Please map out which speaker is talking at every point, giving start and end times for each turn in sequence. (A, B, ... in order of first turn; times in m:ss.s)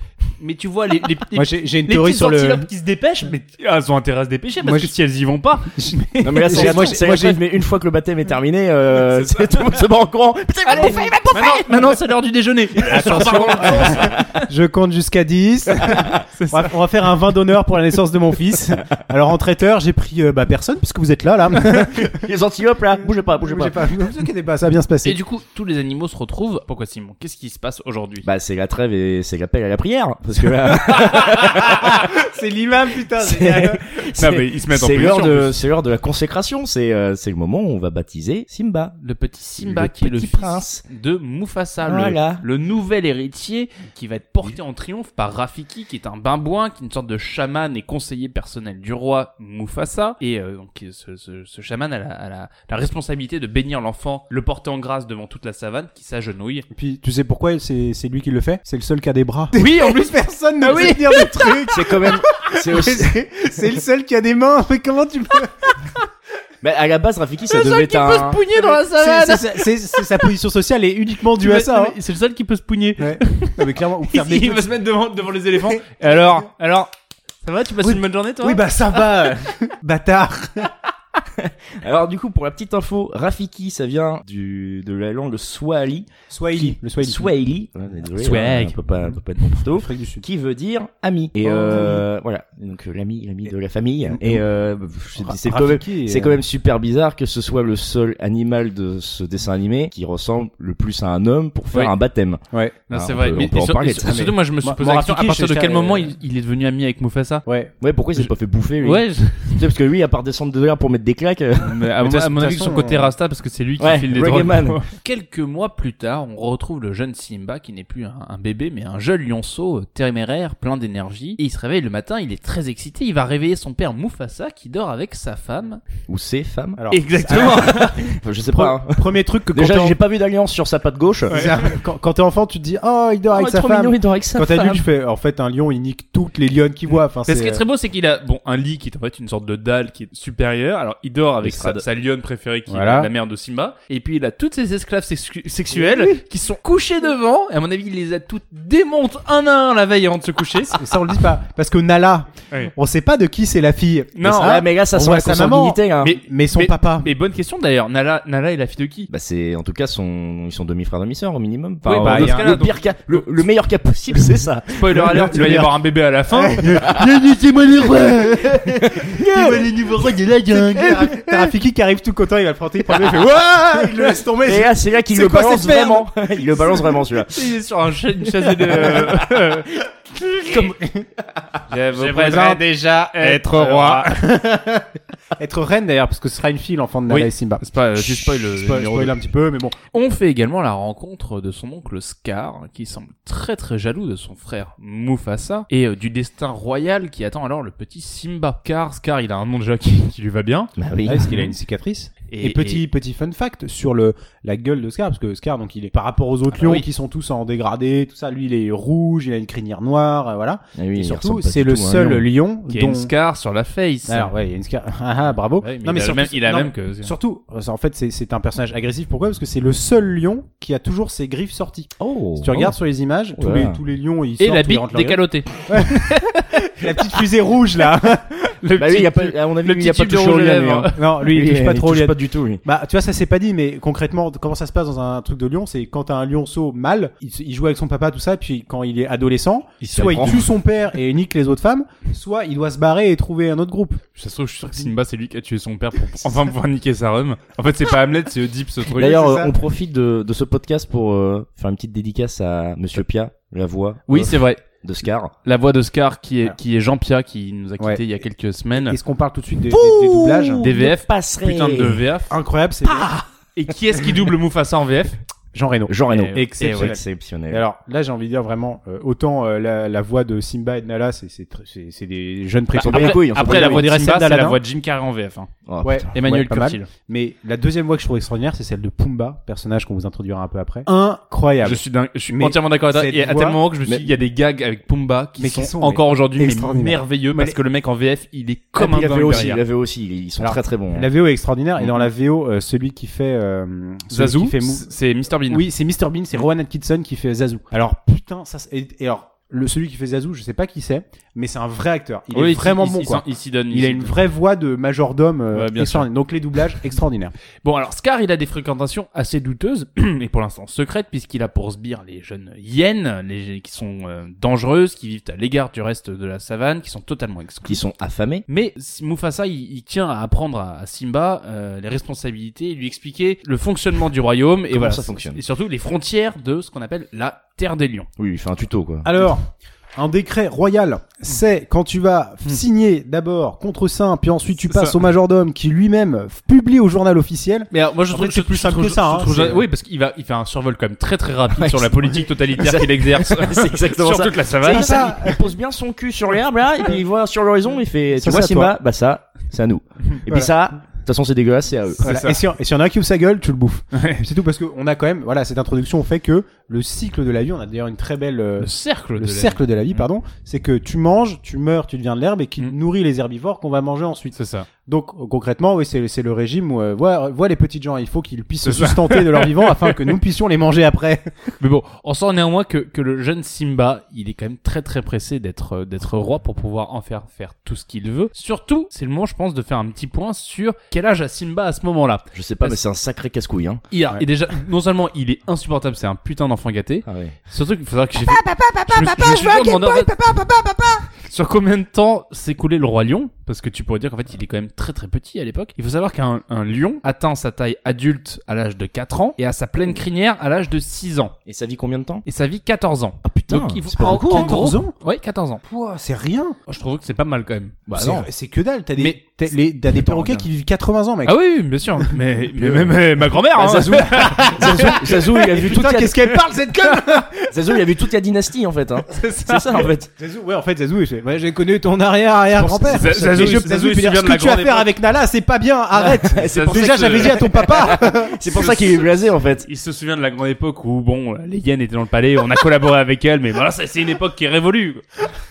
0:00.4-0:06.9 A
0:01.3-0:02.7 B
0:04.6-0:04.9 B
0:05.8-0:07.4 B
0:06.2-0:11.6 C
0:09.1-0:09.5 A
0:10.7-0:14.1 A
0:10.8-0:11.2 B
0:12.8-0:14.4 C
0:12.8-0:22.2 B
0:15.8-0:16.2 C
0:16.3-0:16.7 A
0:22.0-0:23.9 C
0:23.3-0:25.2 B
0:25.0-0:28.3 A
0:28.2-0:32.1 C
0:31.0-0:33.8 B
0:33.2-0:39.0 C
0:34.2-0:35.6 A
0:39.0-0:56.6 A
0:39.6-0:40.8 C
0:41.8-0:42.4 C
0:56.7-1:05.9 B
0:59.5-1:01.6 A
1:01.7-1:03.2 C
1:06.6-1:08.4 C
1:07.5-1:09.7 A
1:08.6-1:12.0 B
1:11.4-1:16.9 A
1:13.0-1:14.7 B
1:15.6-1:16.3 B
1:17.4-1:19.0 A
1:17.8-1:20.7 B
1:21.4-1:44.3 C
1:26.3-1:27.3 B
1:28.2-1:29.2 A
1:29.6-1:30.2 B
1:31.4-1:32.0 B
1:34.1-1:34.4 B
1:35.2-1:36.4 B
1:42.5-1:42.8 B
1:42.9-1:47.4 A
1:44.1-1:46.1 B
1:47.5-1:47.7 B
1:47.8-1:51.8 C
1:48.8-1:49.6 A
1:51.6-2:05.8 A
1:52.0-1:53.1 B
1:53.8-1:54.8 C
2:06.1-2:06.8 C
2:06.8-2:08.0 B
2:06.9-2:08.2 A
2:07.3-2:11.4 C
2:08.5-2:10.0 B
2:11.3-2:11.7 A
2:11.3-2:17.6 B
2:13.3-2:14.9 C
2:17.2-2:30.8 A
2:21.4-2:21.8 C
2:22.7-2:23.1 B
2:30.7-2:37.1 B
2:34.2-2:34.6 A
2:34.2-2:36.2 C
2:36.0-2:39.1 A
2:39.1-2:44.8 C
2:41.8-2:43.2 A
2:42.0-2:42.7 B
2:44.7-2:46.8 A
2:44.9-2:45.8 B
2:46.3-2:56.8 B
2:47.9-2:51.3 C
2:53.0-2:57.5 C
2:57.3-2:59.7 A
2:58.4-2:59.1 C
3:00.4-3:01.1 B
3:01.7-3:04.2 A
3:01.9-3:09.8 B
3:07.1-3:09.1 A
3:09.9-3:20.7 A
3:20.8-3:21.4 C
3:21.0-3:33.1 B
3:22.3-3:22.8 A
3:26.5-3:26.9 A
3:30.8-3:32.2 C
3:32.7-3:34.3 A
3:34.1-3:46.2 B
3:35.6-3:37.1 A
3:42.0-3:42.7 C
3:43.4-3:43.8 C
3:44.4-3:46.6 A
3:46.7-3:48.3 B
3:48.6-3:51.0 A
3:48.8-3:52.6 C
3:51.0-4:04.0 B
3:59.8-4:00.5 A
3:59.9-4:00.4 C
4:04.2-4:09.4 A
4:09.0-4:15.3 C
4:09.0-4:09.5 B
4:14.1-4:14.6 A
4:15.4-4:19.0 A
4:18.8-4:20.7 B
4:19.7-4:22.0 C
4:20.6-4:22.3 A
4:22.3-4:23.1 B
4:22.9-4:25.2 A
4:25.5-4:34.6 B
4:25.9-4:27.6 C
4:26.1-4:26.9 A
4:32.8-4:35.5 A
4:32.8-4:33.9 C
4:35.6-4:36.1 C
4:35.8-4:43.6 B
4:36.1-4:36.9 A
4:41.6-4:49.6 A
4:45.4-4:47.6 B
4:48.8-4:51.1 C
4:50.4-4:54.9 B
4:54.1-4:55.6 A
4:55.5-5:07.3 B
5:02.3-5:04.2 A
5:05.5-5:06.1 A
5:07.6-5:17.8 A
5:17.7-5:18.4 C
5:18.5-5:28.1 A
5:24.7-5:25.4 C
5:28.2-5:29.1 C
5:29.0-5:29.4 B
5:30.0-5:39.6 B
5:34.7-5:35.0 A
5:37.7-5:45.1 A
5:41.6-5:52.0 C
5:44.6-5:45.5 B
5:48.2-5:48.7 B
5:52.0-5:52.4 A
5:52.0-6:11.3 B
5:53.9-5:54.2 A
5:58.6-6:00.0 A
6:04.3-6:04.7 A
6:08.6-6:10.1 A
6:11.6-6:22.8 A
6:22.3-6:23.8 C
6:23.9-6:30.1 A
6:27.0-6:27.4 C
6:28.3-6:31.1 B
6:31.2-6:41.3 A
6:41.5-6:42.2 C
6:42.2-6:45.6 A
6:43.2-6:44.7 C
6:44.0-6:44.9 B
6:45.7-6:46.6 B
6:46.7-6:48.0 A
6:47.9-6:51.4 B
6:47.9-6:48.3 C
6:50.0-6:50.4 C
6:51.2-6:55.0 A
6:52.0-6:53.0 B
6:53.5-6:56.3 C
6:53.9-6:57.8 B
6:57.5-7:00.1 C
6:59.1-6:59.9 A
7:00.2-7:08.8 B
7:02.6-7:04.9 A
7:06.0-7:09.7 C
7:06.4-7:07.6 A
7:08.5-7:15.0 A